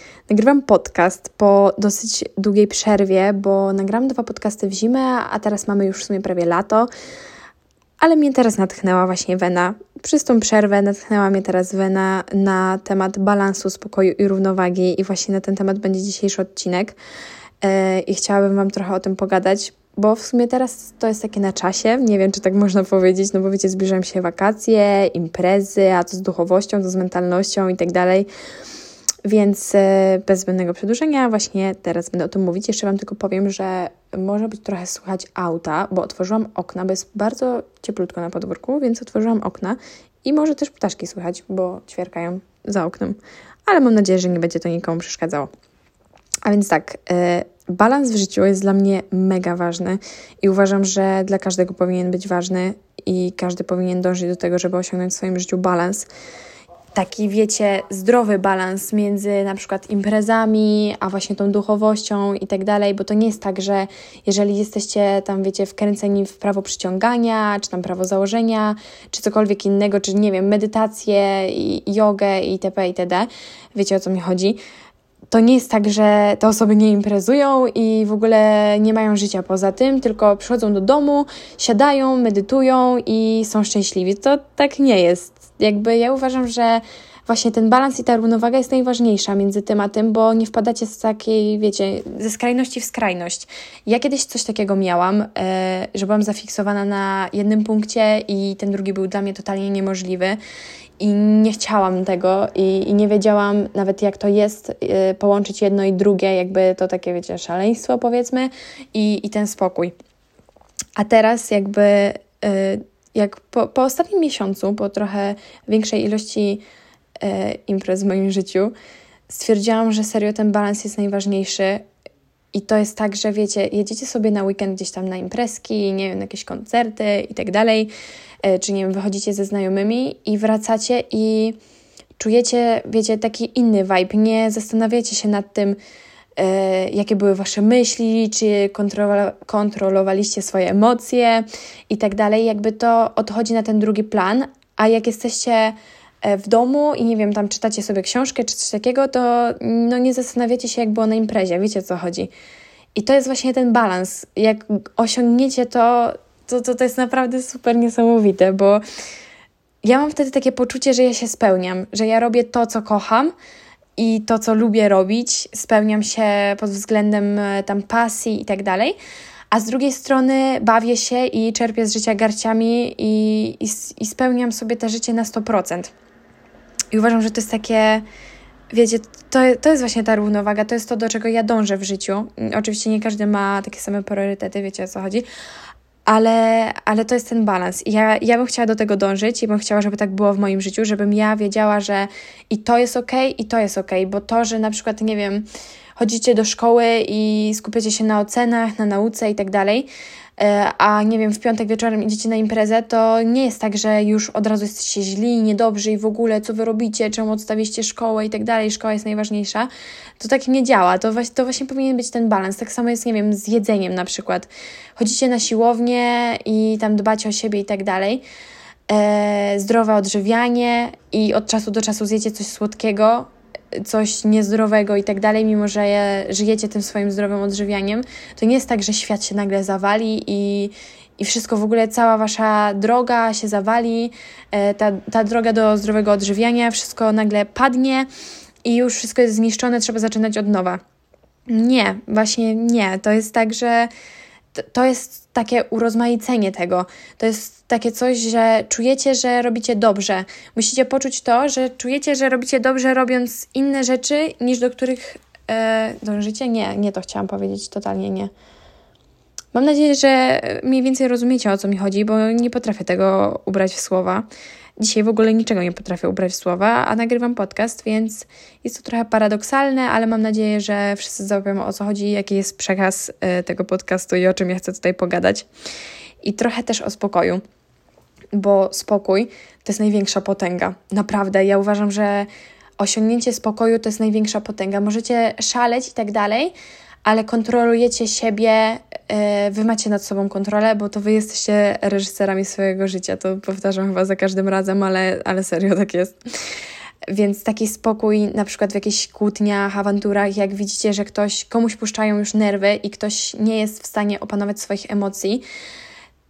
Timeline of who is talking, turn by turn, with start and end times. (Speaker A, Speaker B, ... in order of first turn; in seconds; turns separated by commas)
Speaker A: 0.3-6.9, Speaker A: 8.0-17.0, Speaker A: 17.6-28.3, Speaker A: 29.2-45.5, Speaker A: 46.5-56.1, Speaker A: 56.9-74.6, Speaker A: 75.3-100.4, Speaker A: 101.0-109.9, Speaker A: 111.0-116.6, Speaker A: 117.2-118.7, Speaker A: 119.3-121.8, Speaker A: 122.5-127.9, Speaker A: 128.4-131.6, Speaker A: 132.2-135.8, Speaker A: 136.4-152.3, Speaker A: 152.9-158.8, Speaker A: 159.8-163.3, Speaker A: 164.0-169.0, Speaker A: 169.5-175.9, Speaker A: 176.9-178.1, Speaker A: 178.7-185.2, Speaker A: 186.1-218.2, Speaker A: 218.9-238.1, Speaker A: 238.6-240.8, Speaker A: 241.5-243.9, Speaker A: 244.6-258.3, Speaker A: 259.5-264.3, Speaker A: 264.8-275.5, Speaker A: 276.2-277.4, Speaker A: 278.3-286.5, Speaker A: 287.0-296.2, Speaker A: 297.1-305.4